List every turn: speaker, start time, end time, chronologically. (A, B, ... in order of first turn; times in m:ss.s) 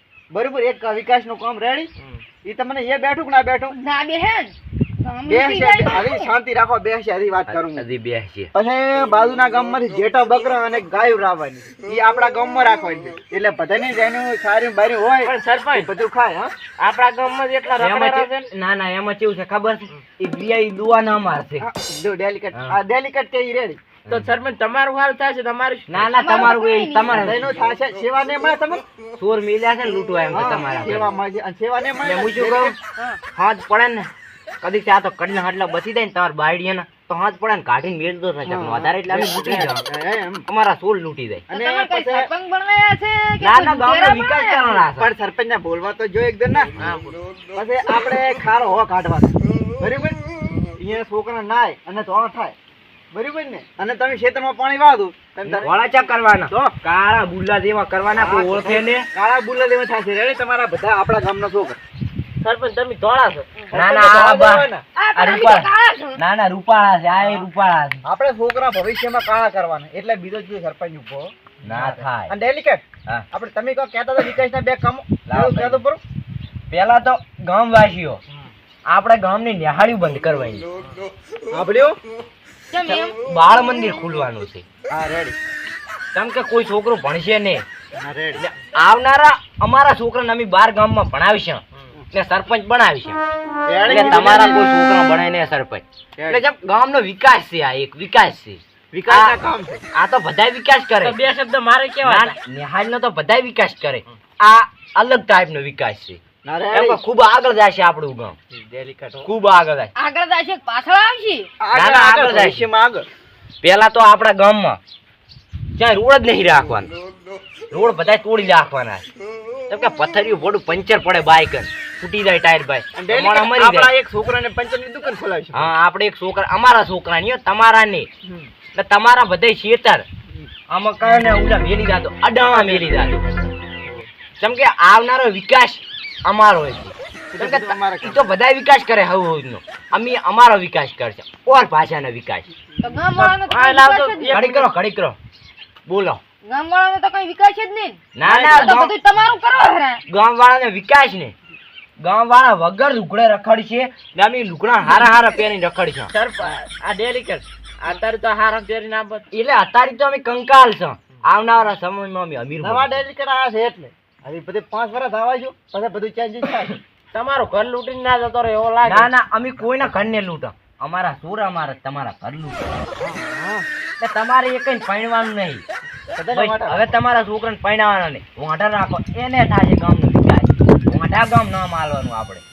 0:00.3-0:01.9 A
0:02.0-0:02.2 B
0:02.4-0:03.8 A
0:03.7-0:06.3 C
0:05.3-0:07.8 A
0:07.5-0:08.5 D
0:08.5-0:16.5 A
0:15.2-0:15.9 B
0:16.8-0:18.3 B
0:17.8-0:21.6 D
0:21.6-0:23.8 A
0:24.0-0:24.3 D
0:24.1-0:26.2 B
0:25.9-0:27.6 D
0:26.2-0:27.2 C
0:27.1-0:28.8 A
0:29.2-0:31.1 D
0:30.3-0:32.8 A
0:32.0-0:32.8 D
0:33.3-0:34.1 D
0:34.6-0:39.8 D
0:38.4-0:40.4 A
0:40.5-0:41.4 D
0:41.5-0:42.3 A
0:41.5-0:44.8 C
0:43.4-0:45.1 D
0:45.0-0:46.7 A
0:46.8-0:47.2 B
0:47.5-0:50.2 A
0:50.8-0:52.5 A
0:53.1-0:55.7 A
0:55.4-0:59.1 D
0:56.5-0:56.8 A
0:58.2-1:01.8 A
1:02.4-1:03.5 B
1:03.7-1:04.8 A
1:03.7-1:08.0 D
1:05.0-1:06.2 C
1:08.0-1:16.0 A
1:11.6-1:12.3 D
1:15.2-1:15.8 D
1:16.7-1:18.2 D
1:18.9-1:20.7 D
1:21.5-1:22.0 A
1:22.7-1:23.2 C
1:22.8-1:24.6 D
1:24.9-1:25.4 A
1:26.1-1:27.6 D
1:28.0-1:28.4 A
1:28.4-1:33.2 D
1:33.6-1:34.7 A
1:33.8-1:39.4 D
1:38.9-1:39.8 A
1:39.9-1:41.2 D
1:41.0-1:42.4 B
1:42.0-1:46.2 D
1:46.4-1:47.0 A
1:46.7-1:48.4 D
1:48.5-1:49.3 A
1:49.2-1:49.9 D
1:50.0-1:51.5 C
1:51.6-1:53.1 A
1:51.7-1:52.7 D
1:53.6-1:54.8 D
1:55.8-1:56.9 D
1:57.7-1:59.1 D
1:59.7-2:03.9 D
2:03.0-2:05.7 A
2:05.5-2:08.1 D
2:08.2-2:08.5 A
2:08.7-2:10.0 D
2:10.7-2:13.2 D
2:12.5-2:13.0 A
2:14.4-2:22.5 D
2:17.3-2:18.2 A
2:22.8-2:24.4 C
2:23.2-2:24.7 B
2:24.3-2:25.2 D
2:25.8-2:26.2 D
2:26.4-2:30.0 C
2:28.1-2:29.0 D
2:28.2-2:28.7 A
2:30.1-2:31.3 D
2:32.0-2:36.1 D
2:36.1-2:39.2 B
2:39.3-2:43.0 D
2:42.6-2:46.8 A
2:47.1-2:49.1 B
2:48.8-2:52.7 D
2:53.0-2:53.7 A
2:54.0-2:55.6 D
2:56.1-2:57.0 A
2:56.3-3:02.4 D